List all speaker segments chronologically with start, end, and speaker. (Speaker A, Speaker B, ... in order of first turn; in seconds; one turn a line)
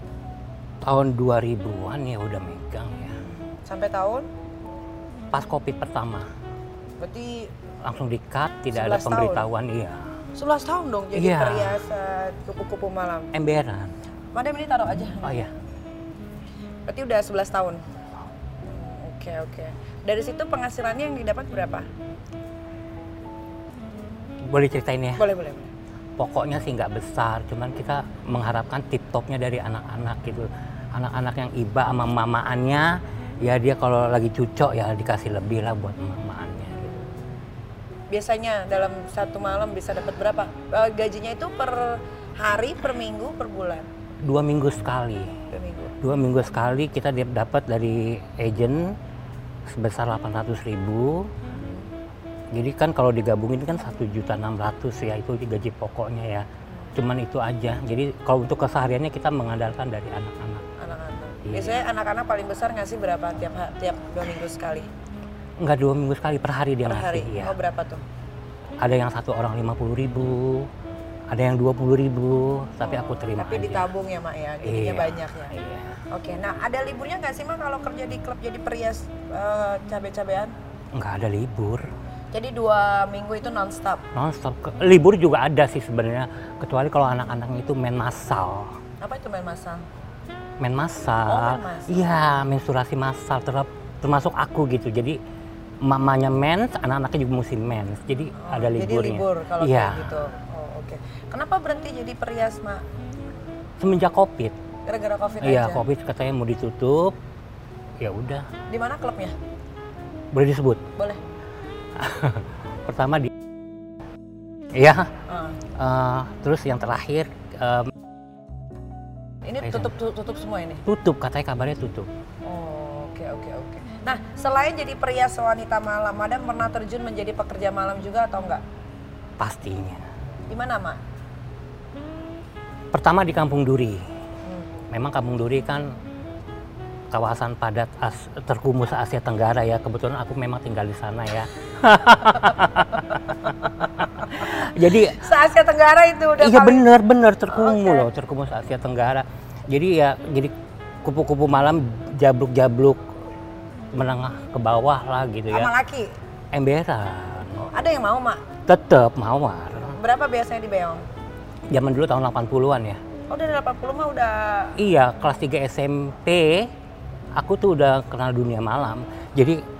Speaker A: 0.8-3.2
Speaker B: 3.5-4.3
Speaker A: 5.3-6.3
Speaker B: 7.0-7.5
Speaker A: 7.8-10.0
Speaker B: 8.7-9.5
Speaker B: 10.3-13.3
Speaker A: 11.1-11.8
Speaker A: 13.3-13.9
Speaker B: 14.3-15.4
Speaker A: 15.2-15.5
Speaker B: 16.9-17.8
Speaker B: 18.7-21.9
Speaker A: 24.5-25.3
Speaker B: 25.2-25.7
Speaker A: 26.2-37.0
Speaker B: 38.1-43.9
Speaker A: 44.2-45.4
Speaker B: 45.5-46.0
Speaker A: 46.0-49.0
Speaker A: 49.7-51.3
Speaker B: 51.5-51.9
Speaker A: 52.5-60.6
Speaker B: 60.8-64.9
Speaker A: 61.5-61.8
Speaker A: 65.6-67.5
Speaker B: 66.9-68.0
Speaker A: 68.8-70.7
Speaker A: 71.3-73.9
Speaker B: 72.8-75.5
Speaker A: 74.6-76.0
Speaker B: 76.1-80.5
Speaker A: 80.9-81.9
Speaker B: 82.3-84.0
Speaker A: 84.1-88.8
Speaker B: 89.0-89.8
Speaker A: 90.6-95.2
Speaker B: 91.3-92.2
Speaker A: 95.8-100.2
Speaker B: 98.4-102.8
Speaker A: 103.8-104.6
Speaker B: 104.9-105.8
Speaker A: 105.4-107.2
Speaker A: 108.0-108.5
Speaker B: 108.7-109.4
Speaker A: 110.3-110.8
Speaker A: 112.0-113.3
Speaker A: 114.7-115.1
Speaker B: 115.3-115.6
Speaker A: 115.8-117.9
Speaker B: 119.5-120.8
Speaker A: 119.6-119.9
Speaker A: 120.9-122.1
Speaker B: 122.5-128.6
Speaker A: 129.4-130.0
Speaker B: 130.5-131.0
Speaker A: 132.9-134.0
Speaker A: 134.9-135.9
Speaker A: 137.1-145.2
Speaker B: 145.1-146.9
Speaker A: 146.4-153.1
Speaker B: 147.5-148.1
Speaker A: 153.9-155.7
Speaker B: 155.5-156.1
Speaker A: 156.5-157.6
Speaker B: 157.6-158.4
Speaker A: 158.7-160.0
Speaker B: 159.8-161.0
Speaker A: 161.7-163.0
Speaker B: 163.3-164.8
Speaker A: 164.8-166.7
Speaker A: 167.4-169.6